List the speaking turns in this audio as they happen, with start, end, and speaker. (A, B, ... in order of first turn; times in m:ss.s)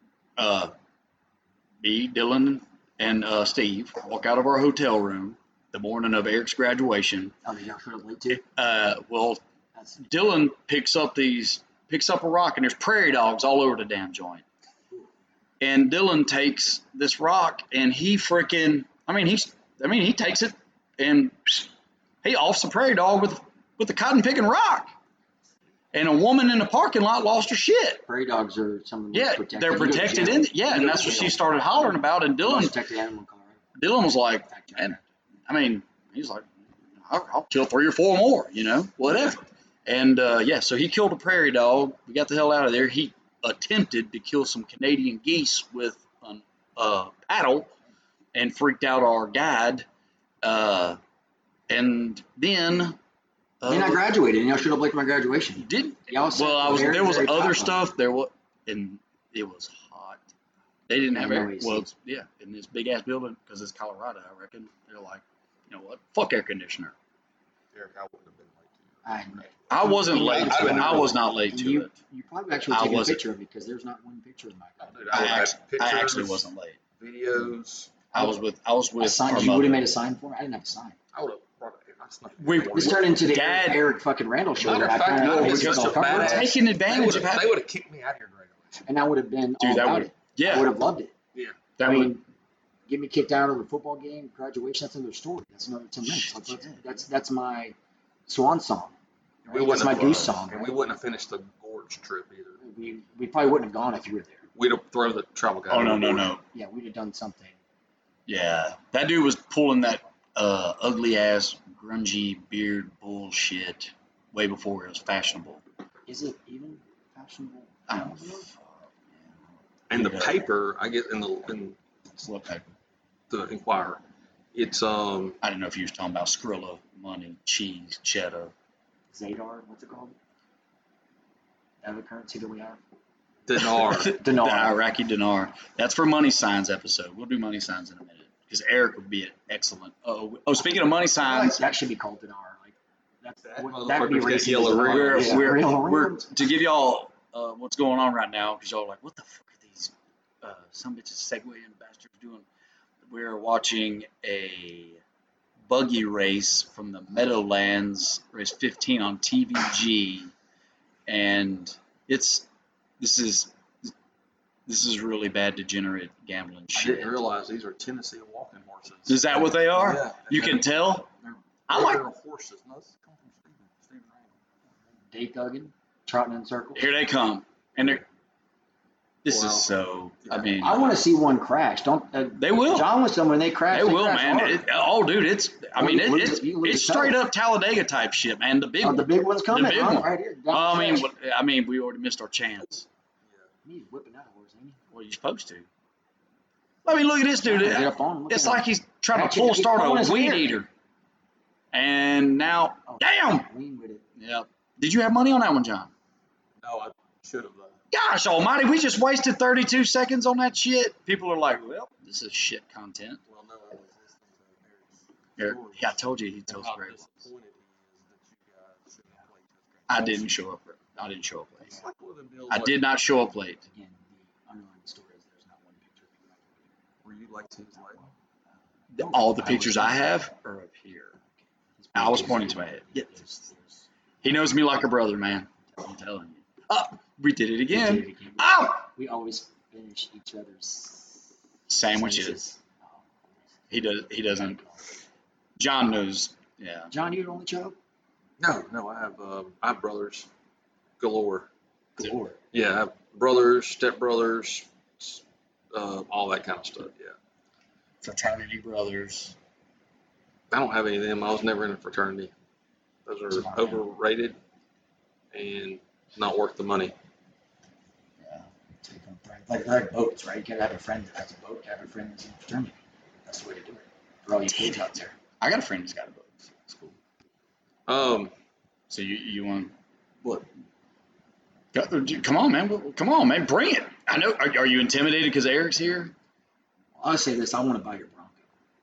0:00.4-0:00.7 A
0:01.8-0:07.4 A
0:07.4-0:08.4 B
0:08.3-0:09.4 A
0:10.0-0:14.4 A
0:15.6-0:21.7 A
0:22.2-0:24.9 A
0:25.9-0:28.0 A
0:28.1-0:33.6 B
0:29.1-0:32.8 A
0:33.8-0:36.5 A
0:34.5-0:35.0 B
0:37.0-0:47.7 A
0:48.3-0:49.9 A
0:50.4-0:51.0 A
0:51.7-0:53.0 A
0:53.6-0:54.0 A
0:53.7-0:57.8 B
0:55.6-1:00.3 A
1:00.9-1:06.9 A
1:01.1-1:01.9 B
1:07.7-1:11.2 C
1:09.0-1:15.4 B
1:09.7-1:11.9 A
1:12.7-1:13.2 A
1:14.8-1:18.0 C
1:15.1-1:16.8 A
1:18.1-1:19.8 A
1:19.0-1:21.0 B
1:21.1-1:23.1 C
1:22.4-1:23.9 A
1:22.7-1:26.6 B
1:24.6-1:28.9 C
1:25.2-1:27.6 A
1:28.8-1:31.1 B
1:29.6-1:30.7 A
1:31.8-1:32.1 A
1:31.8-1:32.2 B
1:32.9-1:37.8 B
1:36.0-1:36.8 A
1:38.3-1:40.8 B
1:39.5-1:42.6 C
1:42.6-1:44.4 B
1:44.6-1:46.3 C
1:45.7-1:46.4 A
1:46.5-1:47.6 B
1:48.3-1:55.6 A
1:56.1-1:58.5 B
1:57.9-2:00.5 A
1:59.9-2:01.8 C
2:02.2-2:02.7 A
2:03.3-2:04.0 C
2:04.5-2:05.4 C
2:05.4-2:08.5 A
2:09.1-2:10.2 B
2:11.8-2:12.8 B
2:13.5-2:14.2 C
2:13.6-2:21.6 A
2:14.0-2:14.8 B
2:21.2-2:26.3 B
2:23.5-2:25.6 C
2:24.8-2:32.4 A
2:33.1-2:35.0 A
2:35.7-2:40.3 A
2:41.1-2:42.5 A
2:43.0-2:43.9 A
2:44.7-2:47.2 A
2:46.8-2:50.7 C
2:49.1-2:51.1 A
2:51.2-2:54.4 C
2:51.7-2:52.0 A
2:55.1-2:56.9 B
2:56.8-2:58.0 A
2:59.2-3:00.8 A
2:59.3-2:59.7 C
3:00.2-3:00.6 C
3:00.6-3:04.7 B
3:02.4-3:02.9 A
3:03.7-3:12.9 A
3:05.8-3:07.2 B
3:08.8-3:11.1 B
3:13.2-3:13.5 C
3:13.6-3:14.8 B
3:14.9-3:15.7 A
3:16.8-3:20.7 A
3:17.4-3:20.6 B
3:21.7-3:23.5 A
3:22.9-3:24.1 B
3:24.2-3:25.9 A
3:26.6-3:27.8 C
3:27.9-3:33.2 A
3:33.3-3:40.3 C
3:35.4-3:37.3 A
3:39.9-3:41.8 A
3:41.7-3:42.8 C
3:42.5-3:43.6 A
3:43.7-3:46.5 B
3:47.0-3:48.1 C
3:48.9-3:51.2 A
3:49.0-3:50.0 B
3:51.8-3:53.8 B
3:52.0-3:53.3 A
3:54.2-3:58.8 A
3:57.7-4:01.2 B
4:01.7-4:02.4 A
4:01.8-4:03.0 B
4:03.7-4:04.6 A
4:04.4-4:04.8 B
4:05.6-4:06.9 A
4:06.9-4:07.8 B
4:08.4-4:10.3 C
4:11.0-4:11.5 C
4:12.0-4:12.4 B
4:12.5-4:17.2 C
4:18.0-4:19.4 A
4:20.5-4:22.3 C
4:23.0-4:24.4 C
4:23.3-4:23.8 B
4:25.3-4:26.9 C
4:28.2-4:28.5 A
4:28.8-4:35.1 B
4:35.4-4:37.0 A
4:37.9-4:38.3 C
4:38.9-4:39.7 A
4:41.7-4:46.1 A
4:47.0-4:48.4 B